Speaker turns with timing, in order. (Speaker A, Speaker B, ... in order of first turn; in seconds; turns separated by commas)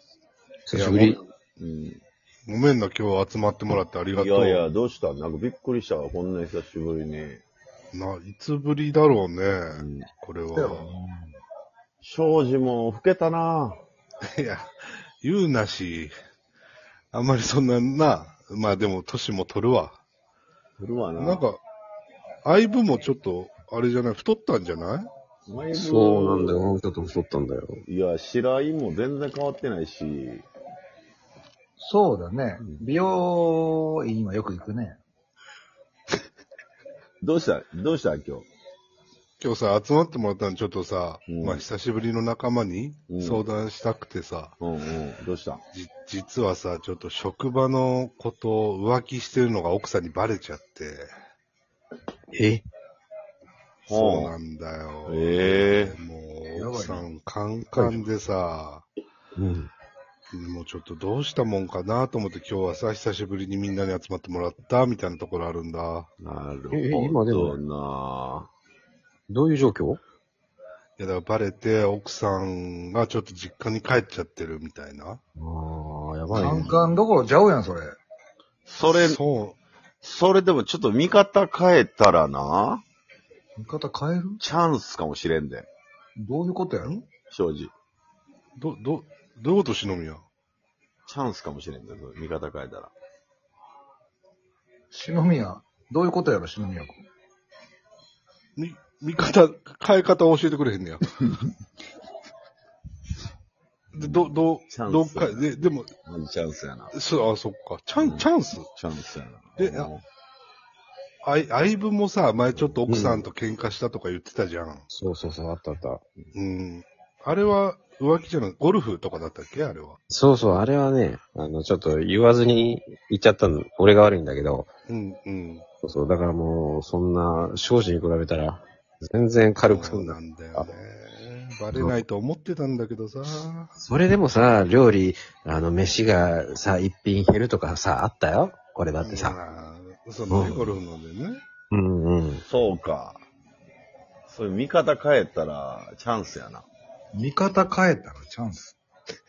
Speaker A: 0.7-1.2, Speaker B: 0.7-1.2, Speaker C: 1.6-2.0, Speaker B: 2.5-4.7, Speaker C: 4.1-7.4, Speaker B: 7.9-10.9, Speaker C: 9.8-10.1, Speaker D: 10.5-11.4, Speaker C: 12.0-13.8, Speaker B: 14.3-16.1, Speaker B: 17.1-20.0, Speaker C: 20.8-21.4, Speaker B: 21.2-21.6, Speaker B: 22.4-25.1, Speaker C: 25.5-26.7, Speaker A: 25.7-27.8, Speaker C: 27.9-30.5, Speaker D: 31.8-35.0, Speaker C: 32.6-32.9, Speaker C: 37.2-38.5, Speaker B: 39.4-44.6, Speaker C: 41.3-41.7, Speaker C: 43.1-43.5, Speaker C: 44.6-45.6, Speaker B: 45.7-51.1, Speaker A: 52.3-52.7, Speaker C: 53.9-54.4, Speaker B: 53.9-58.9, Speaker C: 55.1-56.0, Speaker D: 56.6-57.1, Speaker A: 57.7-58.0, Speaker A: 59.4-59.7, Speaker B: 60.3-66.1, Speaker C: 66.2-68.5, Speaker A: 66.7-67.6, Speaker A: 69.3-70.0, Speaker B: 71.0-75.2, Speaker A: 75.4-76.9, Speaker D: 76.3-78.0, Speaker C: 76.4-76.8, Speaker C: 78.7-79.2, Speaker B: 78.8-79.6, Speaker C: 80.0-82.8, Speaker D: 83.6-84.4, Speaker C: 84.4-85.7, Speaker D: 86.2-86.9, Speaker C: 87.3-87.7, Speaker B: 88.6-90.2, Speaker C: 91.1-92.9, Speaker D: 94.9-97.0, Speaker B: 98.6-101.3, Speaker B: 103.9-106.0, Speaker C: 104.0-106.9, Speaker B: 106.9-108.7, Speaker C: 108.0-110.0, Speaker B: 109.6-109.9, Speaker B: 111.2-114.9, Speaker C: 112.5-112.8, Speaker A: 112.9-113.3, Speaker A: 114.9-116.0, Speaker B: 116.3-120.0, Speaker A: 120.1-124.7, Speaker B: 124.9-125.7, Speaker A: 125.8-130.7, Speaker B: 129.7-133.7, Speaker A: 131.7-132.0, Speaker A: 133.8-139.4, Speaker B: 139.0-141.5, Speaker A: 140.3-140.8, Speaker A: 141.7-142.4, Speaker C: 142.4-143.2, Speaker C: 144.3-146.7, Speaker D: 147.1-148.8